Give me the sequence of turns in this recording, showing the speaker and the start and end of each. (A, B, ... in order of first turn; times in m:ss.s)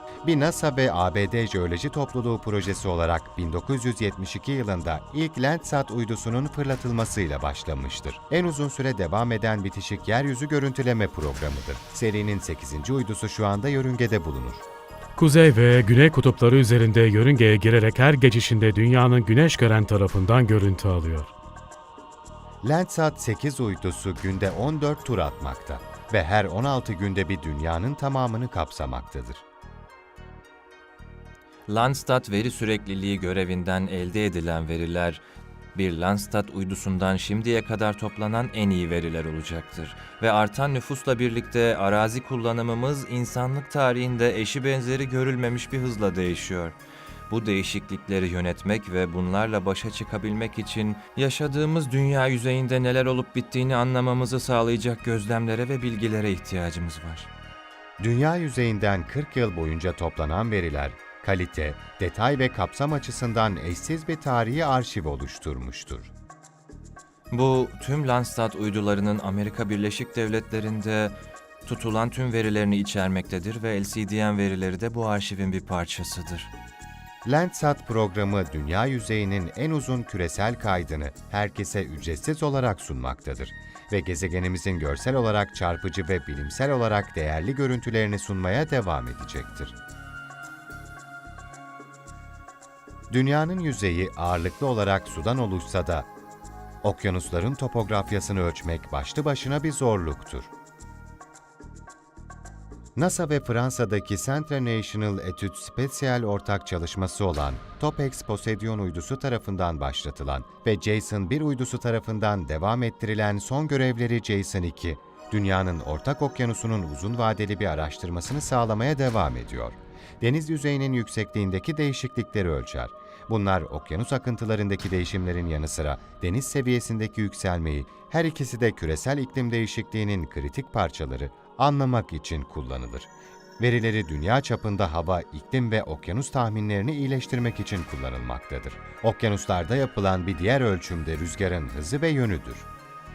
0:00.2-0:14.6 A
0:15.2-0:21.3 B
0:22.6-0:29.4 A
0:31.7-0:35.2 C
0:35.7-0:46.8 C
0:47.3-0:57.3 C
0:58.0-1:06.1 A
1:07.3-1:16.5 C
1:17.2-1:29.7 A
1:33.1-1:36.1 A
1:36.8-1:40.5 A
1:43.0-2:22.7 A